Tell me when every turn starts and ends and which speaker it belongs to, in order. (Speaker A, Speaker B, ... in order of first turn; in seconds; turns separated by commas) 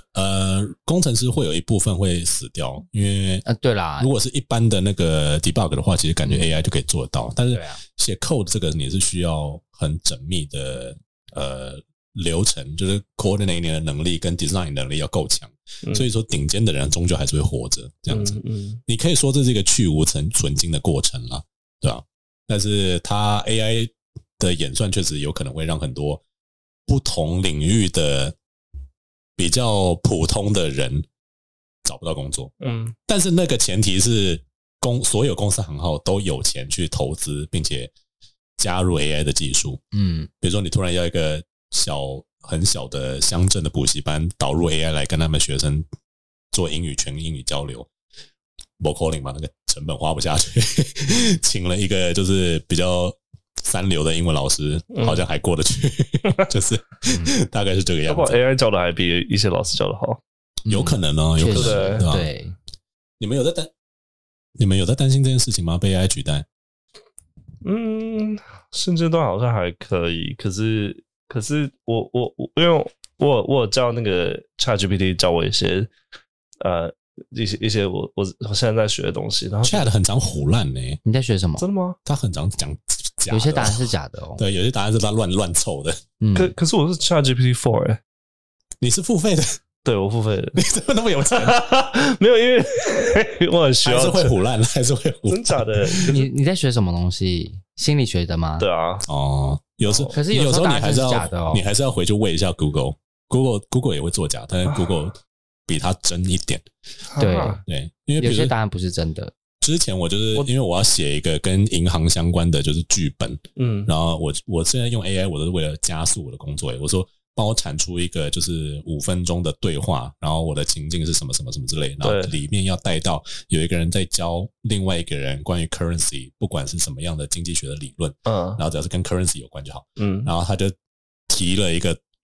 Speaker A: 0.1-3.5, Speaker B: 3.5-4.1, Speaker A: 4.0-26.2, Speaker B: 7.5-7.8, Speaker C: 18.1-18.8, Speaker A: 26.9-28.4, Speaker A: 29.4-31.1, Speaker A: 31.9-32.5, Speaker C: 32.6-33.0, Speaker A: 33.1-37.9, Speaker A: 38.6-39.8, Speaker B: 39.9-40.3, Speaker A: 40.4-45.9, Speaker A: 46.5-47.9, Speaker A: 48.8-58.4, Speaker C: 54.9-55.2, Speaker C: 58.1-60.2, Speaker B: 60.7-62.5, Speaker A: 60.7-62.3, Speaker C: 61.5-62.1, Speaker A: 63.2-63.7, Speaker A: 64.6-66.5, Speaker C: 67.6-75.9, Speaker C: 76.6-79.9, Speaker A: 79.6-81.0, Speaker B: 81.0-81.6, Speaker C: 81.6-82.0, Speaker A: 82.0-86.0, Speaker B: 83.3-84.4, Speaker B: 86.2-86.5, Speaker C: 86.3-88.0, Speaker A: 88.8-89.6, Speaker C: 89.8-90.6, Speaker A: 90.6-91.7, Speaker C: 91.3-94.3, Speaker A: 93.8-96.1, Speaker C: 95.3-96.3, Speaker B: 96.1-98.7, Speaker C: 98.6-99.0, Speaker A: 99.0-106.7, Speaker C: 99.8-100.1, Speaker B: 100.1-101.6, Speaker C: 107.1-107.6, Speaker B: 107.2-107.6, Speaker A: 107.7-108.5, Speaker B: 108.2-109.3, Speaker A: 109.6-130.8, Speaker C: 113.6-113.9, Speaker C: 122.0-122.3, Speaker C: 128.3-128.6, Speaker C: 130.0-130.3, Speaker A: 131.3-132.0